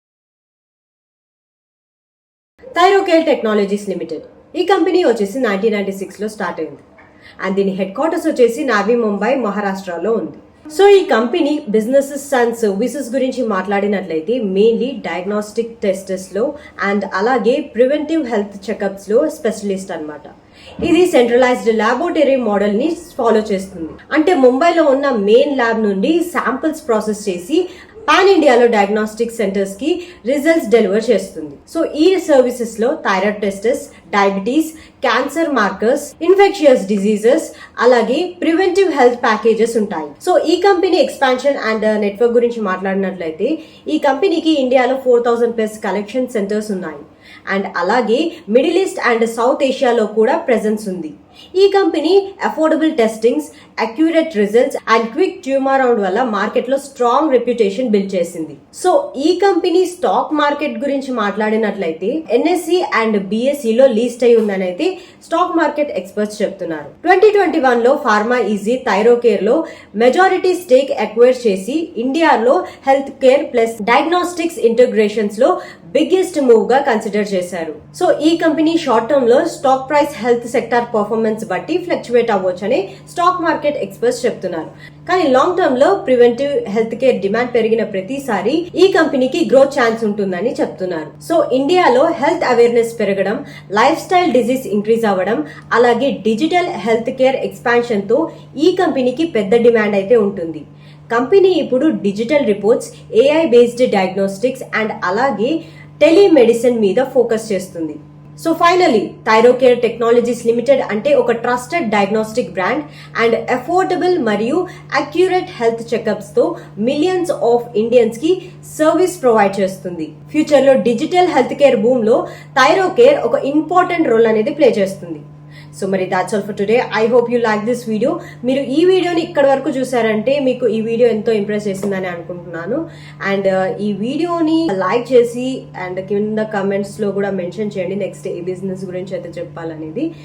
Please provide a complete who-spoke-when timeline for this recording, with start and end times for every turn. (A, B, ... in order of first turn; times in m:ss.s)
0:02.8-0:06.8 A
0:07.4-2:20.1 A